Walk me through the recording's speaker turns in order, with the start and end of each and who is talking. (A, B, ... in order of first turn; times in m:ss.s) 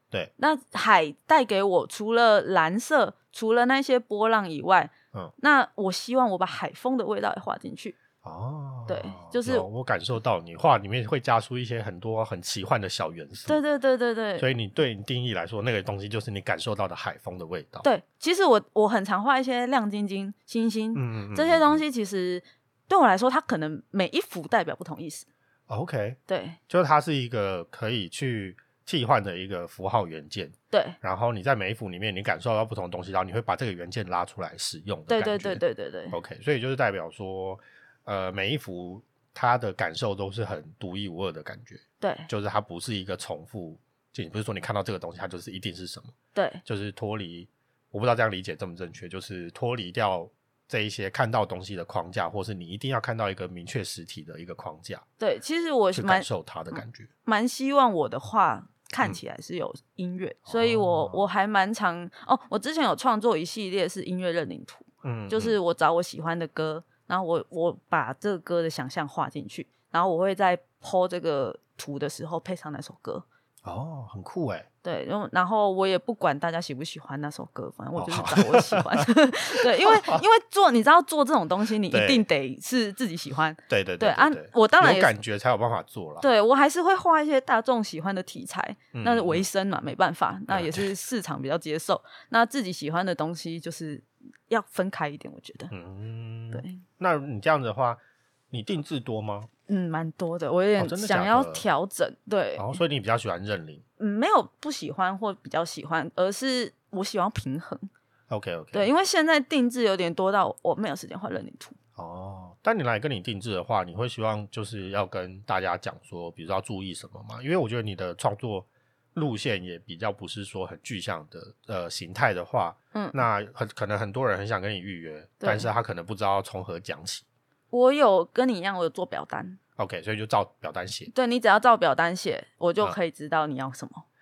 0:00.4-0:08.0 A
0:08.2-0:13.6 B
0:08.9-0:09.7 A
0:13.5-0:14.5 A
0:14.4-0:17.8 B
0:17.8-0:25.3 A
0:20.9-0:21.8 B
0:25.7-0:46.1 B
0:26.3-0:26.6 A
0:30.7-0:31.0 A
0:35.1-0:36.2 A
0:42.0-0:42.3 A
0:46.3-0:46.6 A
0:46.6-0:55.0 B
0:55.2-1:13.2 A
0:56.0-0:57.1 B
1:00.5-1:01.2 B
1:05.0-1:05.6 B
1:13.6-1:14.7 B
1:14.8-1:25.1 A
1:18.0-1:19.0 B
1:19.8-1:20.2 B
1:21.9-1:22.2 B
1:23.7-1:26.2 B
1:26.2-1:35.7 A
1:28.9-1:29.5 B
1:30.5-1:30.9 B
1:35.7-1:38.0 B
1:36.5-1:36.8 A
1:38.5-1:39.5 B
1:39.7-1:42.8 A
1:40.8-1:41.6 B
1:42.6-1:43.8 B
1:44.0-1:47.9 A
1:48.3-1:48.9 B
1:48.7-1:51.8 A
1:52.0-2:07.2 B
2:02.9-2:03.2 A
2:05.4-2:05.7 A
2:07.7-2:09.6 A
2:09.8-2:11.1 B
2:11.1-2:14.0 A